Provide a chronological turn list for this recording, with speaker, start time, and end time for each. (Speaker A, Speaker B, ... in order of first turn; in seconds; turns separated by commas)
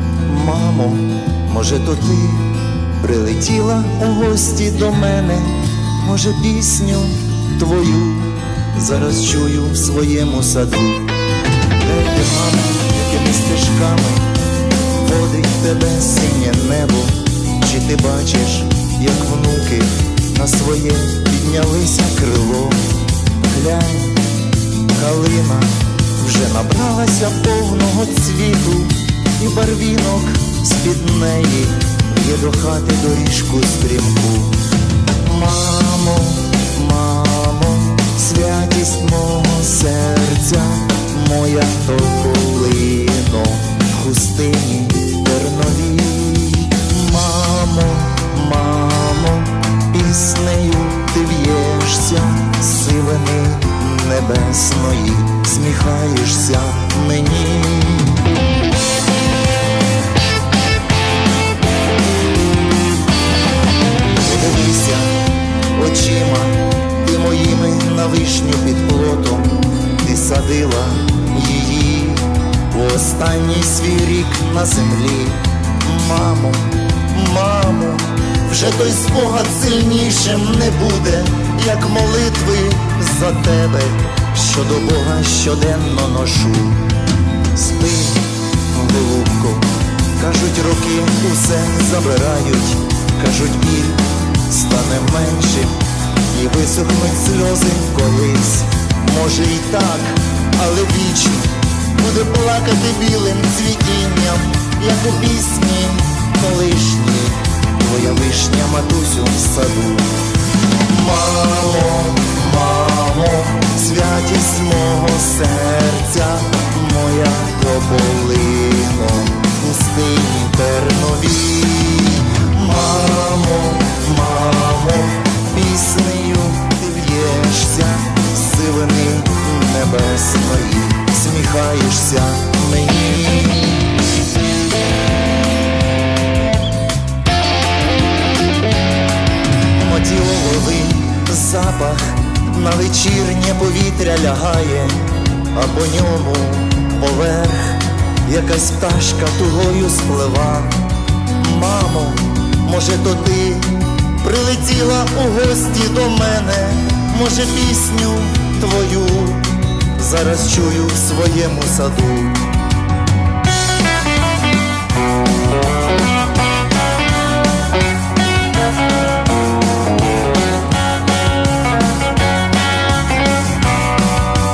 Speaker A: 0.2-11.2, Speaker A: 11.7-14.3, Speaker A: 14.9-24.2, Speaker A: 24.9-34.6, Speaker A: 35.2-58.2, Speaker A: 64.2-86.9, Speaker A: 87.5-110.2, Speaker A: 110.8-133.9, Speaker A: 139.7-162.5